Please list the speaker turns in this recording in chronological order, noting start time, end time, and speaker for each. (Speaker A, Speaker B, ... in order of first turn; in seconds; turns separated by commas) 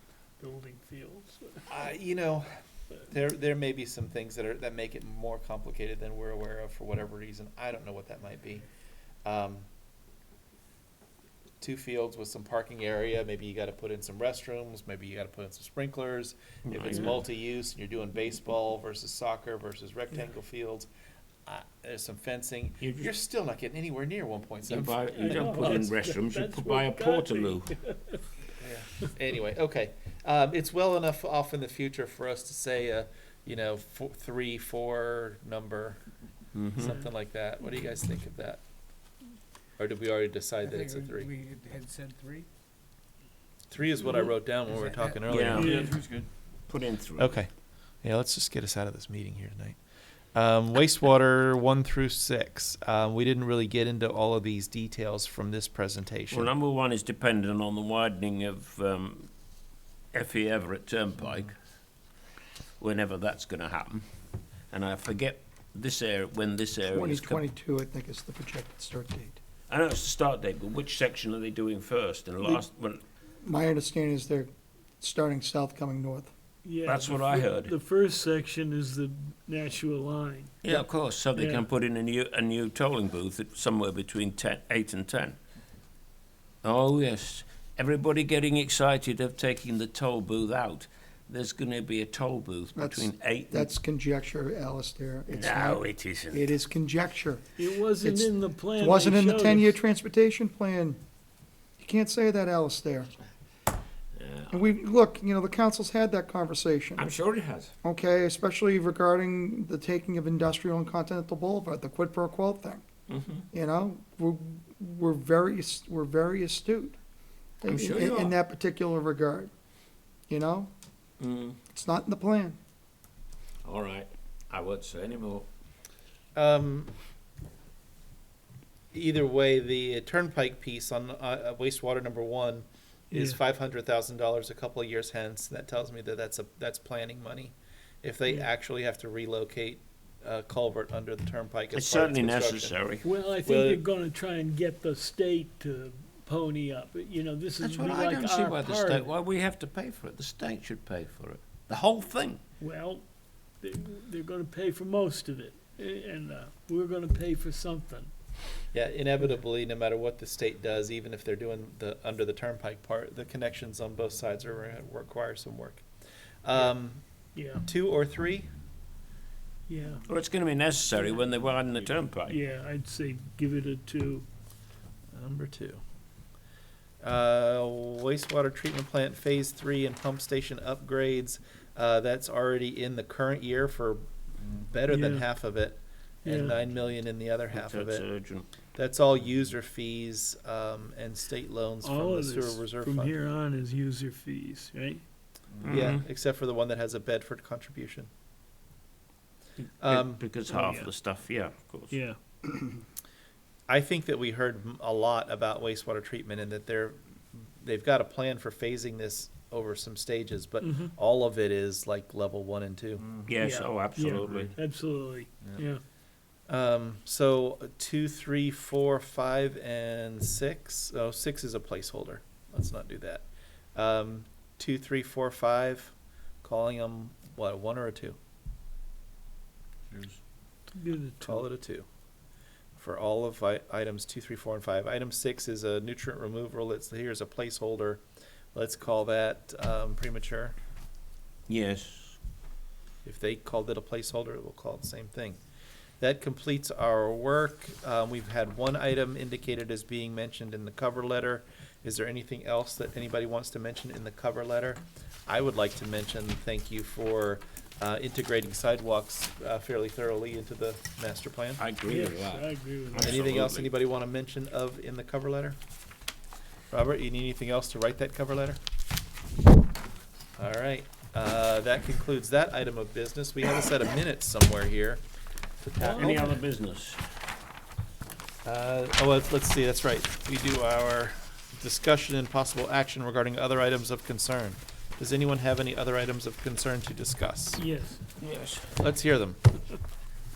Speaker A: 0.4-1.7, Speaker B: 1.7-2.5, Speaker B: 3.1-8.6, Speaker B: 9.2-9.7, Speaker B: 11.6-20.9, Speaker C: 16.6-17.2, Speaker B: 21.5-25.7, Speaker C: 22.8-23.1, Speaker C: 24.7-27.7, Speaker A: 25.1-28.2, Speaker B: 28.6-36.0, Speaker C: 36.5-37.0, Speaker B: 36.8-38.6, Speaker B: 39.8-41.3, Speaker D: 40.6-42.5, Speaker B: 43.7-46.0, Speaker D: 44.7-46.3, Speaker C: 45.3-45.8, Speaker A: 45.5-46.0, Speaker C: 46.7-47.3, Speaker B: 47.2-47.5, Speaker B: 48.0-49.8, Speaker B: 50.3-56.5, Speaker C: 56.3-59.3, Speaker C: 60.1-61.5, Speaker C: 62.8-64.0, Speaker C: 64.7-67.4, Speaker E: 66.9-69.4, Speaker C: 69.7-73.0, Speaker E: 73.4-74.5, Speaker E: 75.0-76.3, Speaker A: 76.6-80.6, Speaker C: 76.8-77.7, Speaker C: 80.6-85.4, Speaker A: 81.3-81.7, Speaker C: 86.6-93.7, Speaker E: 92.7-97.5, Speaker C: 95.3-96.5, Speaker A: 97.6-99.8, Speaker E: 98.0-101.0, Speaker E: 101.8-103.1, Speaker C: 104.2-104.6, Speaker E: 104.5-107.0, Speaker C: 107.0-107.7, Speaker E: 107.8-112.8, Speaker C: 113.1-113.5, Speaker E: 113.5-117.0, Speaker E: 117.6-119.5, Speaker C: 117.7-118.3, Speaker E: 120.3-120.7, Speaker C: 121.2-121.6, Speaker E: 121.7-122.6, Speaker C: 123.6-125.5, Speaker B: 126.3-126.9, Speaker B: 128.9-142.8, Speaker A: 133.1-133.4, Speaker C: 141.7-143.1, Speaker A: 143.0-149.1, Speaker B: 143.4-143.8, Speaker C: 147.6-152.4, Speaker A: 152.6-153.1, Speaker A: 153.6-158.1, Speaker B: 158.7-165.8, Speaker B: 166.4-167.0, Speaker A: 167.3-167.7, Speaker B: 167.6-168.5, Speaker A: 169.7-170.0, Speaker C: 170.1-172.4, Speaker A: 172.2-174.2, Speaker B: 175.1-175.8, Speaker B: 177.0-184.0, Speaker B: 184.6-188.1, Speaker A: 184.8-185.3, Speaker A: 186.2-186.6, Speaker C: 187.5-188.5, Speaker B: 188.7-193.2, Speaker A: 191.8-195.0, Speaker C: 195.6-196.0, Speaker B: 195.7-198.1, Speaker C: 199.6-201.9, Speaker B: 199.8-200.2, Speaker A: 200.5-200.9, Speaker A: 201.9-202.2, Speaker B: 203.7-213.1, Speaker A: 210.6-210.9, Speaker C: 213.2-214.5, Speaker A: 213.4-215.8, Speaker D: 214.1-214.5, Speaker B: 216.5-228.2, Speaker A: 230.7-231.5, Speaker B: 231.2-231.8, Speaker B: 232.8-238.0, Speaker B: 238.5-240.5, Speaker C: 241.5-242.2, Speaker B: 243.0-245.4, Speaker B: 246.0-261.6, Speaker C: 261.6-263.7, Speaker A: 261.8-263.1, Speaker B: 263.0-265.6, Speaker B: 266.7-268.6, Speaker B: 270.4-275.0, Speaker A: 275.7-276.4, Speaker C: 275.8-277.0, Speaker B: 275.9-276.2, Speaker B: 278.4-287.6, Speaker A: 287.5-288.0, Speaker C: 288.2-288.7, Speaker B: 288.7-289.4